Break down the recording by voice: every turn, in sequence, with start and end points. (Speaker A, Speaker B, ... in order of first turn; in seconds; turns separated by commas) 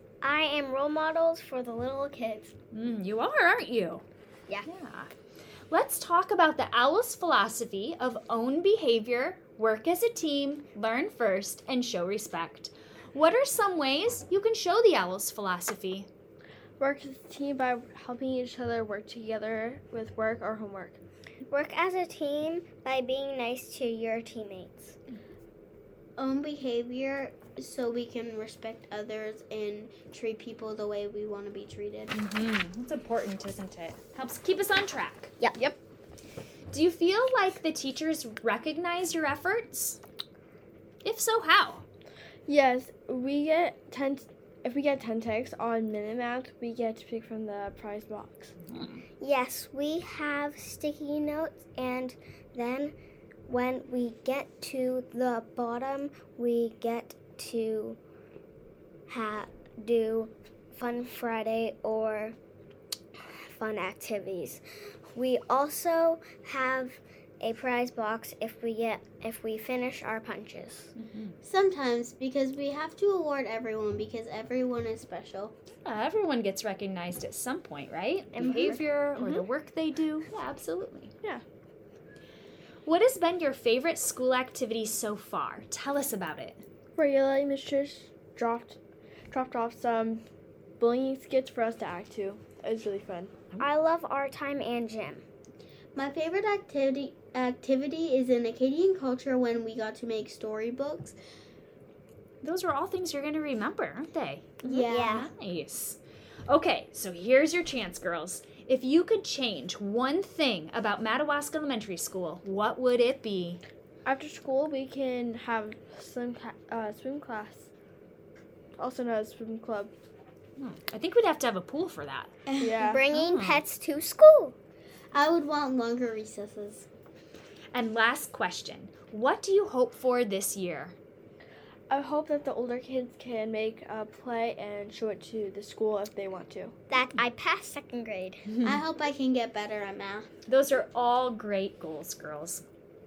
Speaker A: 0.2-2.5, Speaker B: 2.7-4.0, Speaker B: 4.7-5.1, Speaker B: 5.7-16.1, Speaker C: 16.8-21.0, Speaker A: 21.5-24.9, Speaker D: 26.2-32.1, Speaker B: 32.1-35.3, Speaker B: 36.7-40.0, Speaker B: 41.0-41.8, Speaker C: 42.5-48.5, Speaker B: 48.6-49.0, Speaker A: 49.2-52.9, Speaker A: 53.5-58.0, Speaker A: 59.1-62.4, Speaker A: 63.4-64.6, Speaker A: 65.1-70.9, Speaker B: 71.0-71.4, Speaker D: 71.4-75.5, Speaker B: 75.8-81.1, Speaker A: 78.3-79.4, Speaker B: 82.8-86.6, Speaker C: 87.0-88.8, Speaker C: 89.3-90.2, Speaker C: 90.8-93.3, Speaker A: 93.6-95.2, Speaker D: 95.9-101.2, Speaker B: 102.4-113.6, Speaker D: 104.6-105.3, Speaker A: 104.6-105.3, Speaker C: 114.0-117.7, Speaker C: 118.8-119.9, Speaker B: 120.6-122.3, Speaker D: 122.5-122.8, Speaker C: 122.6-123.0, Speaker A: 122.8-124.5, Speaker B: 123.1-123.6, Speaker D: 125.1-126.9, Speaker B: 127.7-130.9, Speaker C: 131.9-136.7, Speaker A: 136.9-138.5, Speaker D: 138.6-140.3, Speaker B: 140.4-142.6